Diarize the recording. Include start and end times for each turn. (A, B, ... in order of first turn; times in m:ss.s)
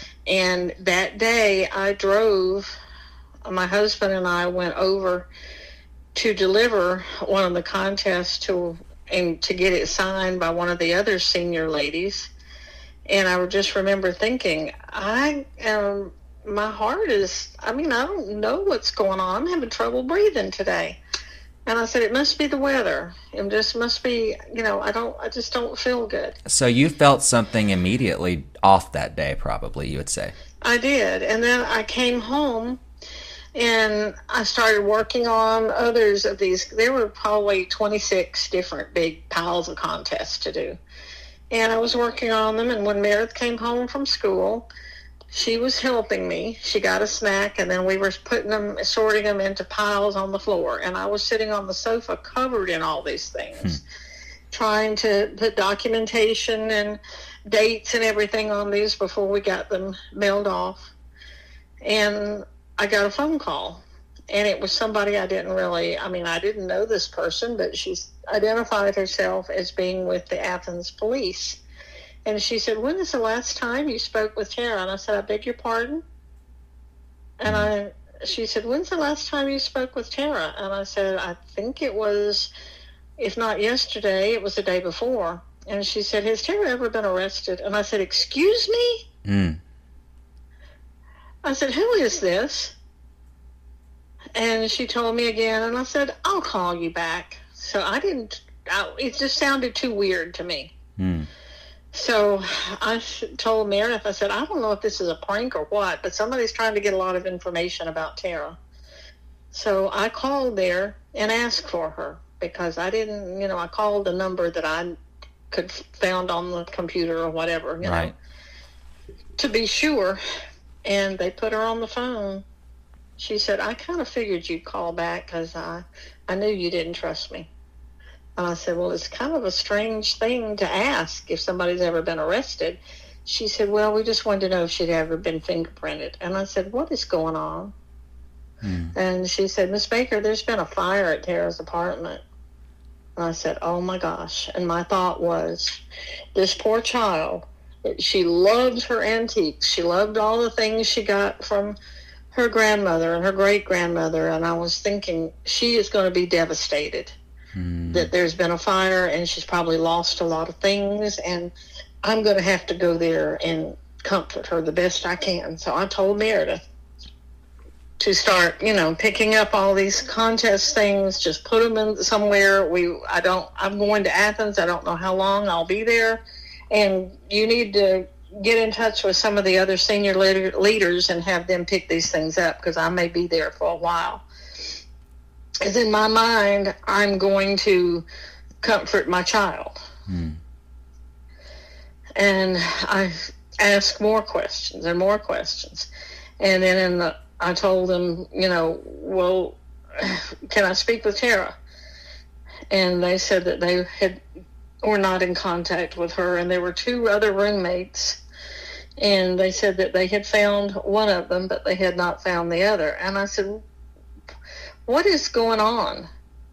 0:00.3-0:02.7 A
0:03.4-0:05.3 A
0:06.1-0:12.3 A
0:13.1-0:21.0 A
0:21.7-0:26.4 A
0:26.4-0:30.3 B
0:30.6-0:32.8 A
0:33.5-0:40.8 A
0:41.5-0:44.7 A
0:45.3-0:53.8 A
0:54.5-1:00.9 A
1:01.8-1:11.6 A
1:12.2-1:16.0 A
1:17.4-1:22.5 A
1:23.2-1:29.1 A
1:29.2-1:29.6 B
1:31.4-1:32.7 A
1:34.4-1:40.7 A
1:41.9-1:48.6 A
1:49.5-1:55.0 A
1:55.5-1:58.1 A
1:57.8-1:58.1 B
1:59.4-2:00.2 A
2:00.8-2:02.4 A
2:03.2-2:07.5 A
2:08.4-2:17.7 A
2:18.9-2:22.2 A
2:23.2-2:25.8 A
2:26.3-2:31.8 A
2:32.3-2:37.2 A
2:37.6-2:38.0 B
2:37.8-2:41.5 A
2:42.0-2:46.6 A
2:48.0-3:04.2 A
3:05.6-3:08.0 A
3:08.6-3:09.8 A
3:12.2-3:15.9 A
3:16.4-3:21.5 A
3:22.7-3:24.2 A
3:24.8-3:28.2 A
3:29.0-3:33.6 A
3:34.9-3:36.1 A